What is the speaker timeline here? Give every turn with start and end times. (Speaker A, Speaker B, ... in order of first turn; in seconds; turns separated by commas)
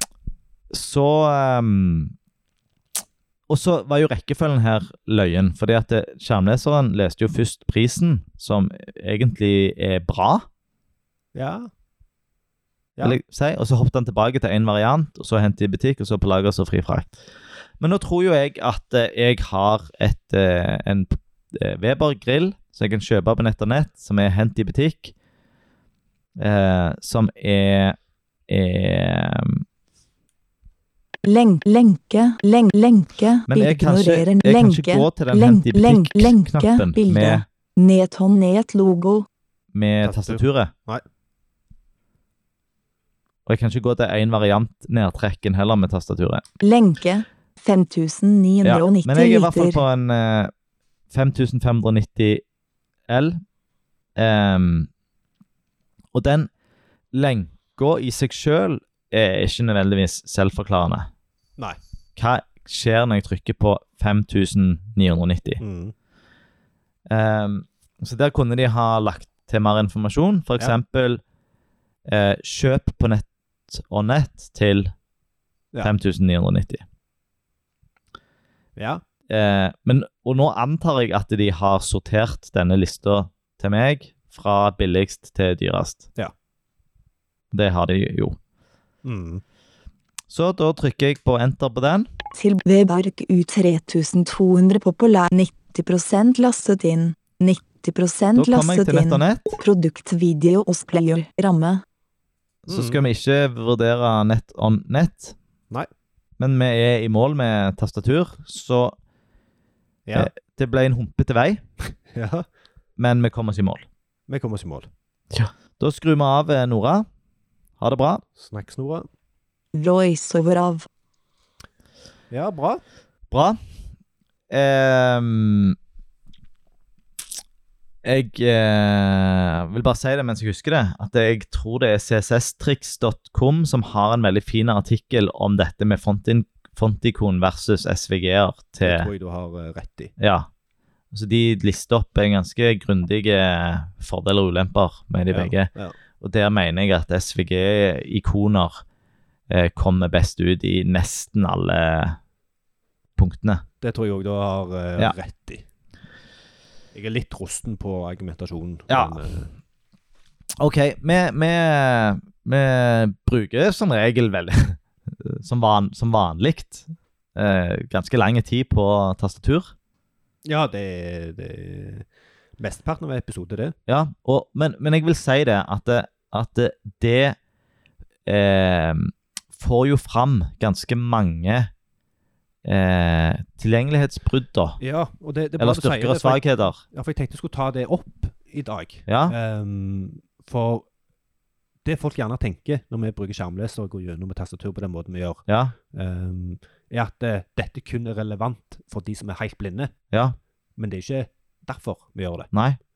Speaker A: 0.7-2.1, Speaker A: 3.5-10.5, Speaker B: 11.3-11.7, Speaker A: 13.0-17.2, Speaker A: 17.8-25.1, Speaker A: 26.4-28.0, Speaker A: 28.5-29.6, Speaker C: 31.2-39.3, Speaker A: 33.5-37.4, Speaker A: 39.7-40.7, Speaker B: 40.0-41.0, Speaker A: 43.5-46.4, Speaker C: 46.6-49.8, Speaker A: 48.6-50.5, Speaker A: 51.1-52.4, Speaker A: 53.1-53.4, Speaker A: 54.1-54.9, Speaker A: 56.1-56.5, Speaker A: 57.1-61.1, Speaker A: 62.1-65.6, Speaker B: 65.6-65.9, Speaker A: 67.1-71.2, Speaker A: 72.0-74.9, Speaker A: 75.8-76.8, Speaker B: 78.8-79.0, Speaker A: 79.3-86.1, Speaker A: 87.5-88.4, Speaker B: 89.0-89.4, Speaker A: 90.3-92.1, Speaker C: 92.3-101.8, Speaker A: 98.3-99.6, Speaker A: 102.7-105.3, Speaker B: 102.7-103.0, Speaker A: 106.4-108.9, Speaker B: 110.0-110.3, Speaker A: 110.1-111.6, Speaker B: 112.1-112.4, Speaker A: 113.0-113.8, Speaker B: 114.3-114.9, Speaker A: 115.3-117.1, Speaker A: 117.8-118.2, Speaker B: 118.3-119.1, Speaker C: 119.7-120.9, Speaker B: 122.3-122.8, Speaker A: 123.3-123.6, Speaker A: 124.5-125.8, Speaker A: 128.0-139.1, Speaker B: 138.8-140.1, Speaker A: 140.2-140.5, Speaker A: 141.1-148.8, Speaker B: 145.3-145.9, Speaker A: 149.5-152.2, Speaker A: 153.2-153.6, Speaker B: 153.8-155.6, Speaker B: 156.9-159.5, Speaker A: 158.9-159.2, Speaker A: 160.6-169.7, Speaker B: 170.4-172.1, Speaker B: 172.6-173.7, Speaker A: 173.9-177.3, Speaker A: 178.2-181.7, Speaker A: 182.6-184.8, Speaker B: 184.8-190.9, Speaker A: 185.6-186.8, Speaker A: 189.1-189.3, Speaker B: 191.8-199.9, Speaker A: 195.5-195.7, Speaker A: 200.1-200.3, Speaker B: 200.8-202.5, Speaker A: 202.5-202.8